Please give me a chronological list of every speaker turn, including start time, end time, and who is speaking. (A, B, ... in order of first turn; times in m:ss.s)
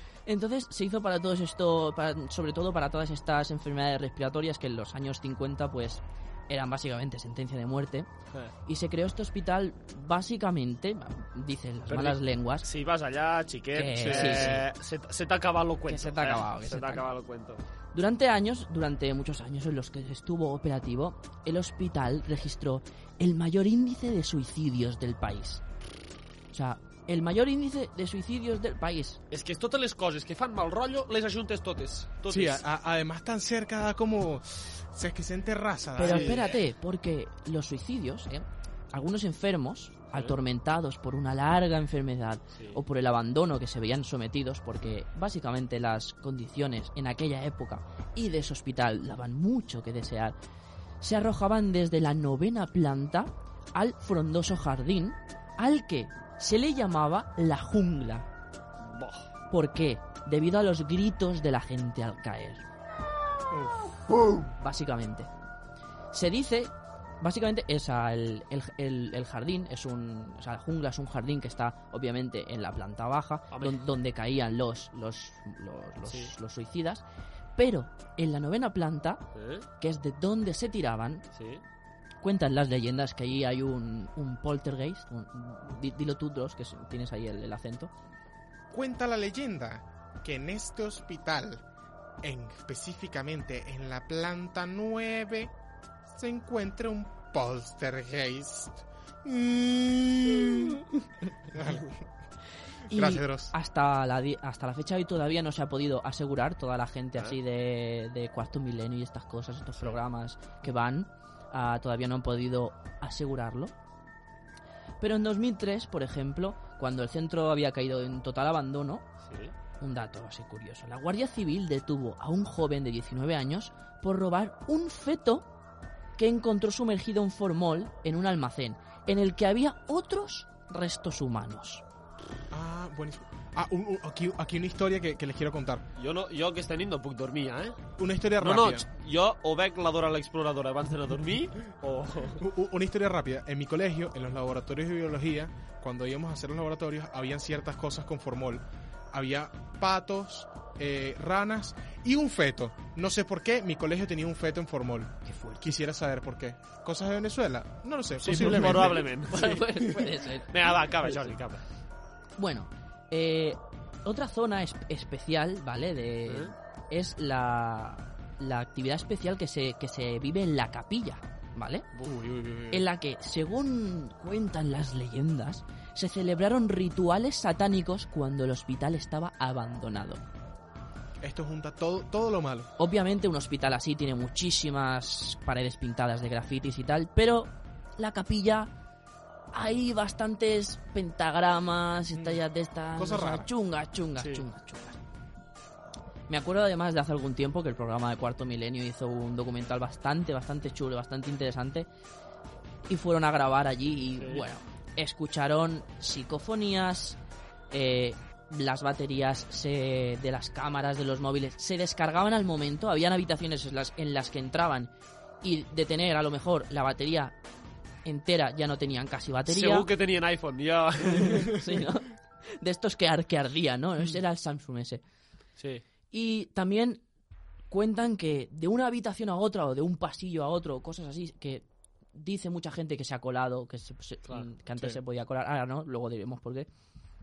0:00.2-0:08.1 A
0:08.6-0:12.6 A
0:11.9-0:17.6 B
0:13.7-0:14.7 A
0:14.0-0:14.6 C
0:15.9-0:17.1 A
0:17.9-0:25.6 A
0:26.5-0:29.2 A
0:29.3-0:32.6 B
0:32.3-0:36.6 C
0:36.0-0:50.4 A
0:36.0-0:36.4 B
0:42.5-0:42.8 B
0:51.0-0:58.3 A
0:58.8-0:59.3 B
0:59.5-1:02.6 A
1:04.6-1:05.3 A
1:06.1-1:17.0 A
1:13.5-1:13.8 B
1:17.6-1:19.2 A
1:19.3-1:19.6 B
1:19.8-1:21.2 A
1:21.3-1:21.6 B
1:22.2-1:27.9 A
1:28.7-1:31.6 C
1:32.2-1:35.5 C
1:36.1-1:40.8 C
1:41.4-1:42.0 C
1:42.9-1:53.7 A
1:42.9-1:43.5 C
1:55.0-1:59.1 A
1:59.3-1:59.5 B
1:59.8-2:05.5 A
2:06.2-2:11.8 A
2:12.5-2:15.8 C
2:16.0-2:17.8 B
2:18.0-2:18.8 C
2:18.4-2:22.4 B
2:22.4-2:39.1 C
2:35.2-2:35.7 A
2:38.2-2:41.6 B
2:38.3-2:41.3 A
2:42.4-2:51.9 A
2:46.3-2:46.5 B
2:52.0-2:52.8 C
2:52.7-3:00.2 A
3:01.2-3:02.7 C
3:02.8-3:08.7 A
3:09.5-3:15.0 A
3:12.9-3:13.5 C
3:14.2-3:14.4 B
3:16.3-3:21.9 A
3:22.9-3:27.2 A
3:24.2-3:24.4 B
3:27.7-3:37.4 A
3:38.0-3:39.9 A
3:39.5-3:41.6 B
3:41.2-3:45.0 A
3:45.6-3:45.8 B
3:46.1-3:47.0 A
3:47.7-3:56.7 A